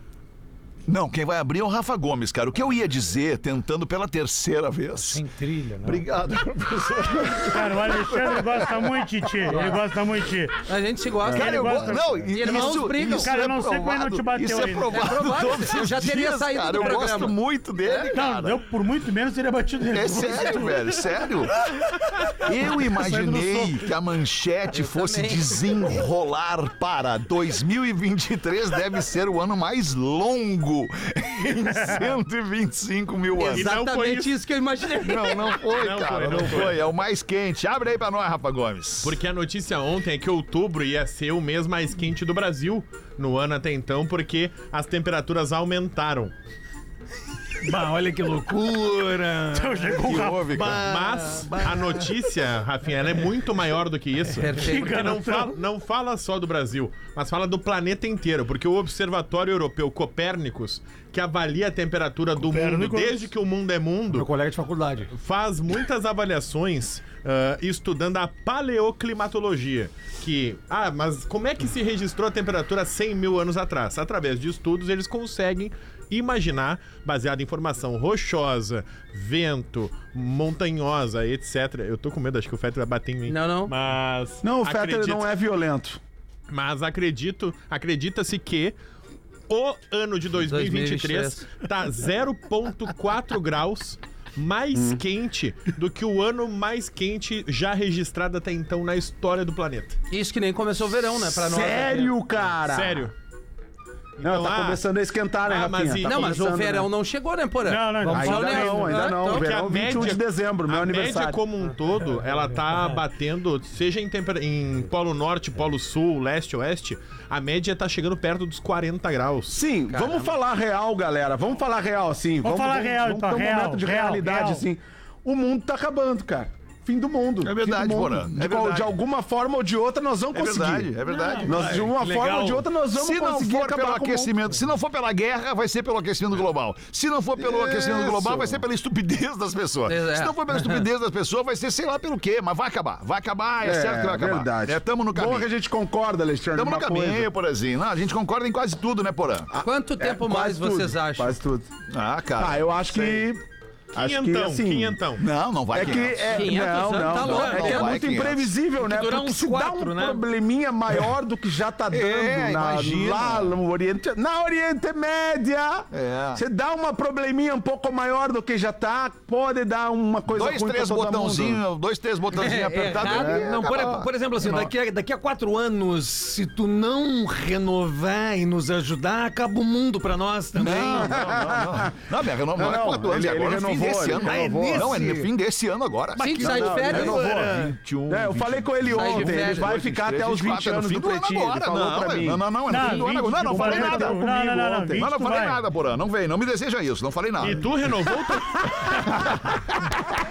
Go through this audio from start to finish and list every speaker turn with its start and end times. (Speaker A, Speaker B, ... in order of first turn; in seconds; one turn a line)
Speaker A: 0.9-5.2
Speaker B: 5.0-6.0
Speaker A: 5.8-9.6
Speaker C: 7.5-10.6
Speaker D: 10.7-13.3
Speaker C: 11.3-15.1
Speaker A: 11.3-18.6
Speaker E: 11.6-11.9
Speaker D: 14.9-18.2
Speaker C: 16.8-17.2
Speaker C: 18.1-20.9
Speaker A: 19.9-33.7
Speaker D: 20.3-20.8
Speaker C: 22.8-23.8
Speaker D: 24.7-25.9
Speaker D: 33.4-35.6
Speaker F: 33.4-34.3
Speaker A: 34.9-39.2
Speaker F: 35.7-36.9
Speaker F: 39.0-46.3
Speaker B: 47.6-52.1
Speaker C: 49.5-50.7
Speaker A: 49.9-50.9
Speaker F: 50.7-64.3
Speaker D: 54.3-55.1
Speaker C: 54.6-55.6
Speaker C: 62.4-63.3
Speaker B: 64.1-65.1
Speaker F: 65.1-85.3
Speaker D: 83.3-83.7
Speaker E: 84.4-86.0
Speaker F: 86.5-88.8
Speaker F: 89.5-100.0
Speaker D: 90.4-91.4
Speaker E: 94.7-95.0
Speaker D: 100.1-102.2
Speaker E: 101.3-103.1
Speaker F: 102.6-103.1
Speaker F: 104.2-104.8
Speaker E: 104.2-106.9
Speaker F: 105.5-106.4
Speaker D: 106.0-109.5
Speaker C: 107.7-109.1
Speaker E: 108.1-111.4
Speaker F: 109.3-119.6
Speaker E: 119.5-134.4
Speaker D: 119.9-120.3
Speaker C: 122.4-124.7
Speaker A: 127.4-128.9
Speaker A: 130.3-131.8
Speaker B: 131.3-132.7
Speaker A: 132.9-145.5
Speaker E: 137.4-138.7
Speaker D: 139.9-140.8
Speaker E: 143.6-147.3
Speaker A: 146.5-149.5
Speaker E: 149.5-151.7
Speaker D: 149.6-151.3
Speaker A: 151.9-153.2
Speaker E: 152.4-153.4
Speaker E: 153.9-155.0
Speaker F: 153.9-155.3
Speaker A: 155.2-158.6
Speaker E: 155.7-171.6
Speaker D: 155.9-157.9
Speaker B: 157.3-157.7
Speaker B: 158.8-160.2
Speaker A: 161.9-163.6
Speaker A: 165.9-166.4
Speaker A: 170.3-174.7
Speaker D: 172.4-173.4
Speaker E: 173.0-173.4
Speaker B: 173.0-181.2
Speaker A: 180.6-194.2
Speaker E: 181.1-181.9
Speaker E: 182.5-185.0
Speaker B: 184.1-185.3
Speaker D: 186.2-187.3
Speaker E: 186.4-195.1
Speaker D: 188.9-189.7
Speaker C: 192.7-195.6
Speaker A: 194.9-198.1
Speaker F: 197.4-199.2
Speaker A: 199.1-199.3